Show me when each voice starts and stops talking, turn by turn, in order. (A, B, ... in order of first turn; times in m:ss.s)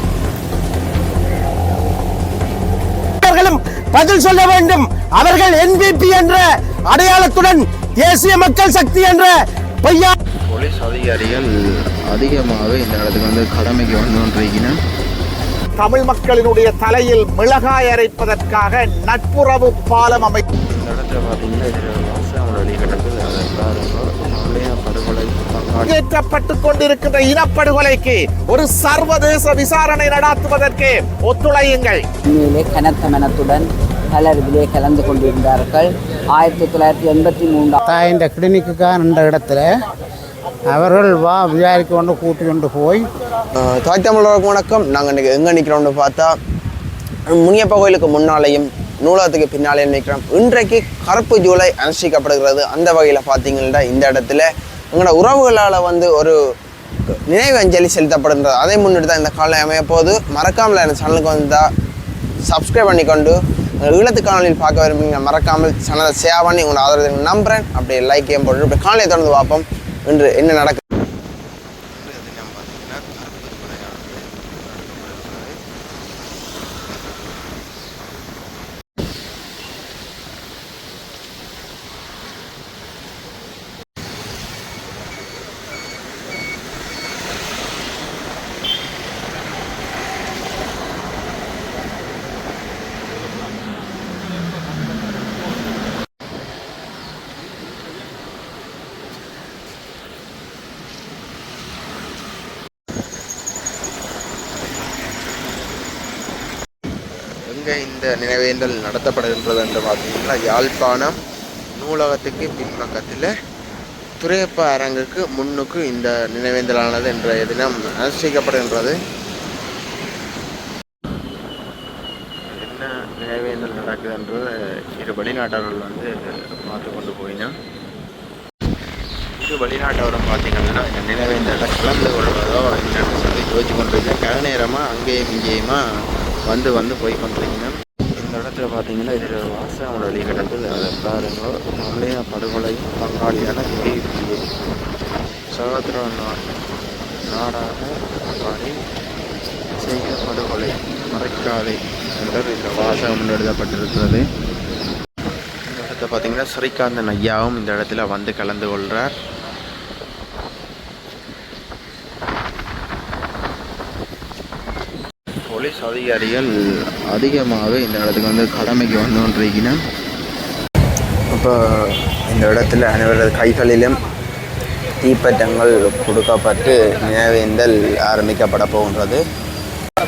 0:03.2-0:09.3 A
0:09.8-0:10.1 A
0:10.5-0:11.5 B
0:12.1-0:14.7 B
0:15.8-0:20.4 C
0:20.7-0:25.9 B
0:25.9-0:32.0 C
0:32.3-0:37.8 D
0:37.8-0:39.6 E
0:40.7-0:43.1 E
0:43.6-0:46.4 F
0:47.3-0:56.4 F
0:57.3-1:01.7 F
1:02.5-1:10.8 F
1:11.9-1:15.6 B
1:47.4-1:51.1 B
1:51.8-1:53.3 B
1:54.2-1:59.0 B
2:02.5-2:07.5 B
2:09.4-2:15.8 B
2:16.5-2:24.4 B
2:25.5-2:26.4 B
2:27.3-2:28.7 B
2:29.8-2:34.2 B
2:35.7-2:39.1 B
2:45.5-2:46.5 B
2:47.1-2:49.8 B
2:52.3-2:54.0 F
2:55.0-2:59.2 F